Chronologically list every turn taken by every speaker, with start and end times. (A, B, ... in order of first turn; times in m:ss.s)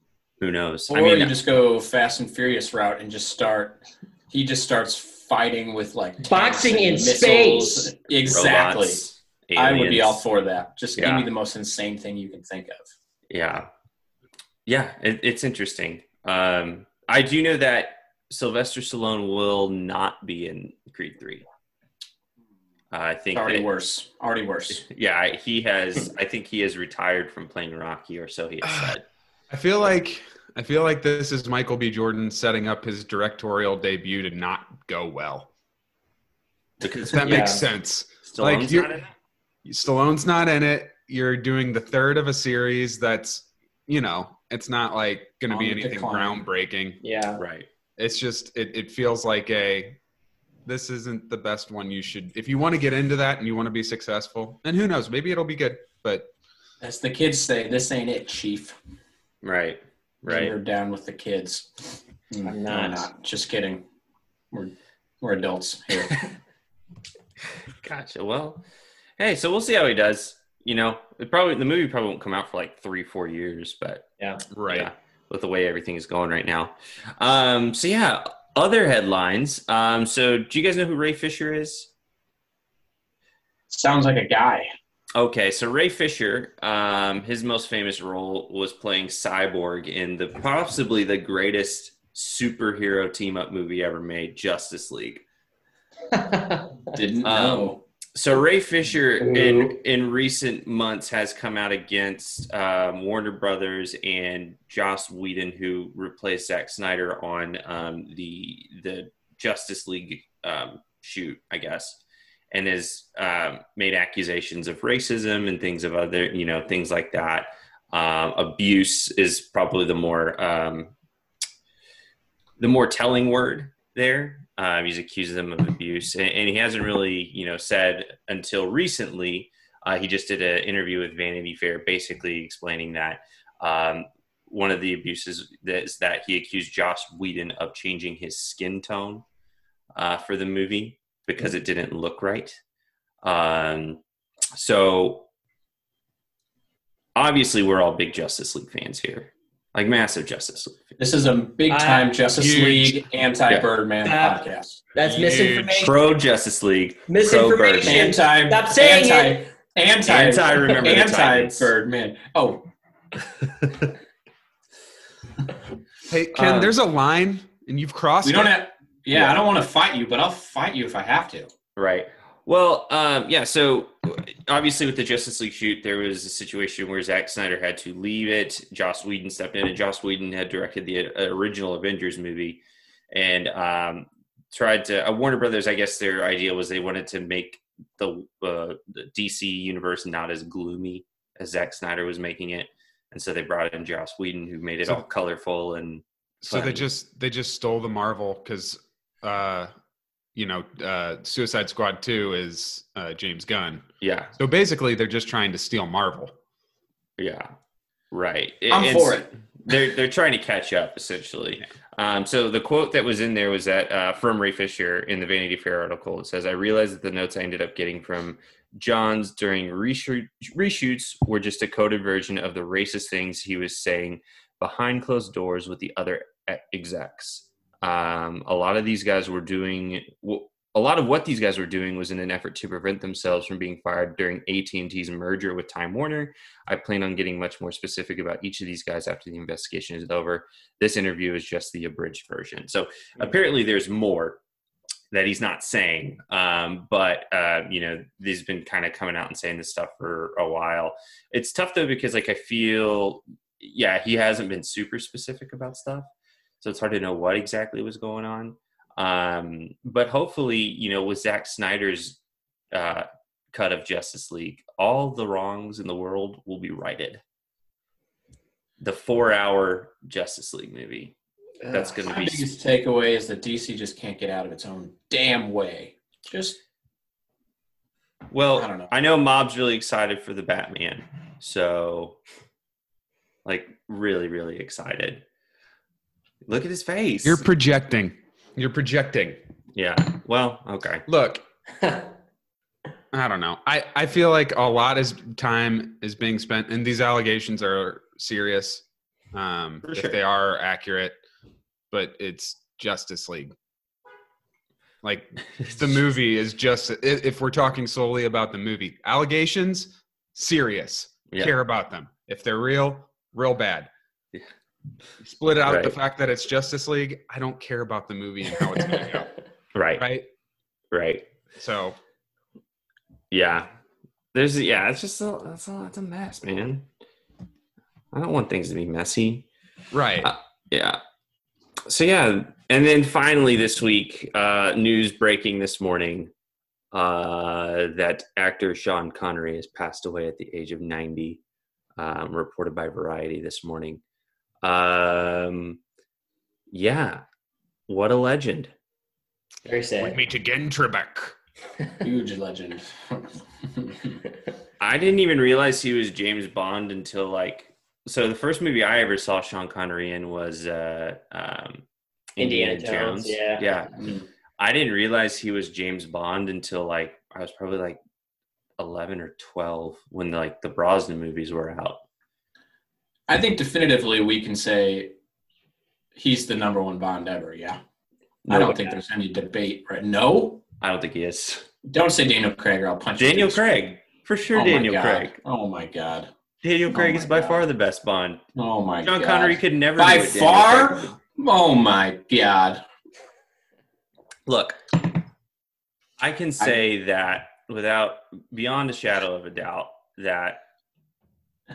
0:00.4-0:01.4 A
0:00.9-0:09.0 B
0:06.2-0:07.9 C
0:08.2-0:10.2 A
0:09.6-0:12.9 B
0:11.0-0:11.3 A
0:13.3-0:13.7 A
0:14.7-0:21.5 A
0:22.9-0:23.7 A
0:23.3-0:24.8 B
0:24.7-0:29.0 A
0:28.6-0:28.9 D
0:29.5-0:35.5 D
0:36.8-0:37.5 A
0:37.1-0:38.9 D
0:37.2-0:37.6 C
0:38.3-0:39.1 A
0:39.6-0:47.0 D
0:45.5-0:46.4 B
0:47.0-0:47.4 C
0:47.4-0:47.7 A
0:48.0-0:50.0 D
0:50.7-0:56.3 D
0:56.8-0:58.8 B
0:59.4-1:00.6 A
1:00.3-1:03.8 B
1:02.5-1:03.1 C
1:04.5-1:06.3 B
1:07.8-1:08.6 A
1:09.2-1:14.1 A
1:14.5-1:14.9 D
1:14.7-1:21.9 A
1:23.7-1:24.7 B
1:25.2-1:35.2 A
1:36.1-1:36.9 C
1:36.9-1:37.8 B
1:37.2-2:00.9 A
1:39.2-1:39.8 C
2:02.6-2:19.2 A
2:20.0-2:22.6 A
2:23.2-2:24.0 A
2:24.5-2:25.3 A
2:27.2-2:31.0 A
2:31.0-2:34.8 B
2:31.7-2:32.1 C
2:32.3-2:33.1 D
2:34.0-2:36.0 C
2:35.0-2:35.9 D
2:35.8-2:38.0 A
2:37.1-2:39.5 C
2:37.8-2:42.7 B
2:40.1-2:41.7 A
2:46.1-2:48.6 D
2:46.3-2:46.7 A
2:48.2-2:51.5 B
2:49.1-2:49.4 A
2:51.8-3:02.6 A
3:03.1-3:16.9 A
3:16.4-3:19.7 D
3:20.4-3:23.8 D
3:24.0-3:24.3 A
3:24.4-3:26.3 D
3:27.2-3:27.5 A
3:28.1-4:04.4 A
3:28.7-3:29.7 B
4:05.1-4:16.1 A
4:16.6-4:22.2 A
4:22.7-4:27.2 A
4:28.8-4:31.2 A
4:31.6-4:31.9 C
4:31.7-4:32.5 A
4:32.0-4:36.6 B
4:38.3-4:42.2 A
4:38.6-4:38.9 B
4:43.4-4:45.2 A
4:46.4-4:47.4 A
4:47.2-4:49.4 D
4:49.8-4:51.1 A
4:51.1-4:51.4 D
4:53.1-5:01.2 D
4:59.8-5:00.2 A
5:01.9-5:03.5 D
5:05.0-5:13.9 D
5:15.2-5:19.3 D
5:15.6-5:16.0 A
5:19.7-5:20.0 A
5:20.0-5:20.3 D
5:20.9-5:21.3 A
5:21.6-5:22.0 D
5:23.3-5:23.7 A
5:24.3-5:26.9 A
5:28.1-5:29.5 A
5:29.9-5:30.3 D
5:30.2-5:31.0 A
5:31.9-5:36.3 A
5:36.9-5:41.4 A
5:42.0-5:44.0 A
5:44.6-5:45.8 A
5:46.7-5:47.2 A
5:47.9-5:48.7 A
5:49.6-5:50.2 C
5:50.0-5:51.4 D
5:52.0-5:54.2 B
5:54.8-6:01.8 A
6:02.4-6:04.0 A
6:02.4-6:03.6 C
6:04.0-6:04.2 B
6:04.6-6:08.0 A
6:08.8-6:12.0 A
6:13.3-6:15.1 B
6:16.2-6:17.8 B
6:18.4-6:19.0 A
6:18.5-6:20.6 B
6:20.8-6:21.7 A
6:21.9-6:23.7 B
6:23.2-6:25.4 A
6:24.5-6:26.3 B
6:26.6-6:28.4 A
6:26.9-6:27.6 B
6:28.6-6:32.8 B
6:29.0-6:31.2 A
6:34.5-6:34.8 A
6:36.2-6:40.6 A